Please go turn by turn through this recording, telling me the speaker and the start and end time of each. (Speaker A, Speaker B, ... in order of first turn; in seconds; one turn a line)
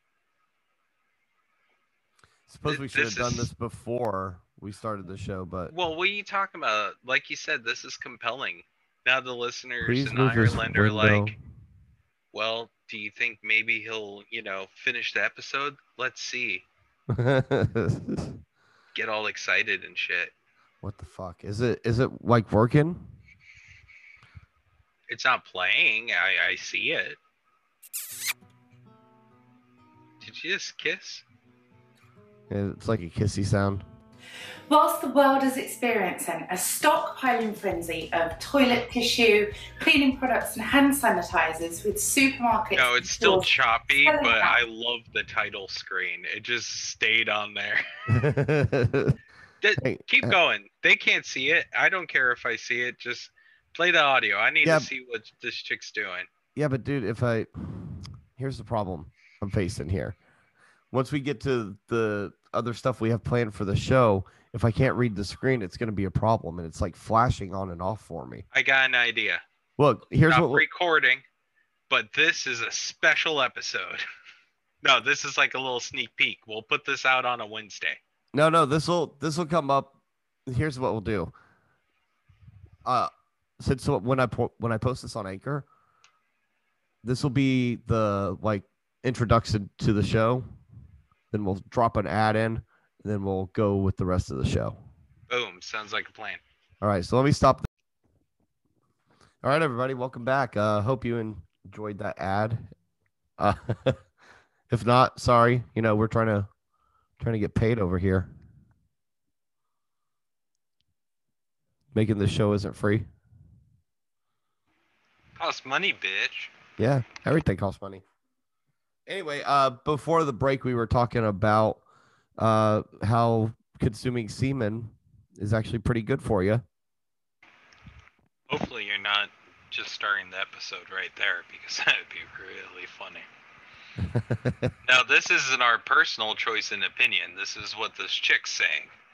Speaker A: 2.5-5.7
Speaker B: 2.7-3.5
Speaker B: 5.7-11.3
Speaker A: 9.8-11.4
Speaker B: 12.3-16.7
Speaker A: 17.1-18.4
Speaker B: 18.9-20.3
Speaker A: 20.8-23.1
Speaker B: 25.1-27.2
Speaker B: 30.2-31.2
Speaker A: 32.5-33.9
Speaker C: 34.7-44.6
Speaker B: 42.7-47.8
Speaker A: 48.1-49.2
Speaker B: 49.6-56.3
Speaker A: 49.8-50.4
Speaker A: 54.6-54.9
Speaker A: 56.6-60.2
Speaker A: 60.9-68.5
Speaker B: 68.5-69.4
Speaker A: 69.8-70.7
Speaker B: 70.3-71.2
Speaker B: 71.9-74.0
Speaker B: 74.8-78.0
Speaker A: 78.3-79.9
Speaker A: 80.5-81.3
Speaker A: 82.8-85.7
Speaker A: 87.0-90.5
Speaker A: 91.3-94.8
Speaker B: 95.3-96.4
Speaker A: 96.8-97.7
Speaker A: 99.4-102.7
Speaker A: 103.4-104.0
Speaker A: 104.7-106.5
Speaker A: 107.2-108.3
Speaker A: 111.9-113.1
Speaker B: 115.4-116.5
Speaker A: 116.8-118.0
Speaker A: 119.1-121.8
Speaker A: 122.4-126.6
Speaker B: 128.5-133.3
Speaker A: 134.0-134.7
Speaker B: 134.8-138.9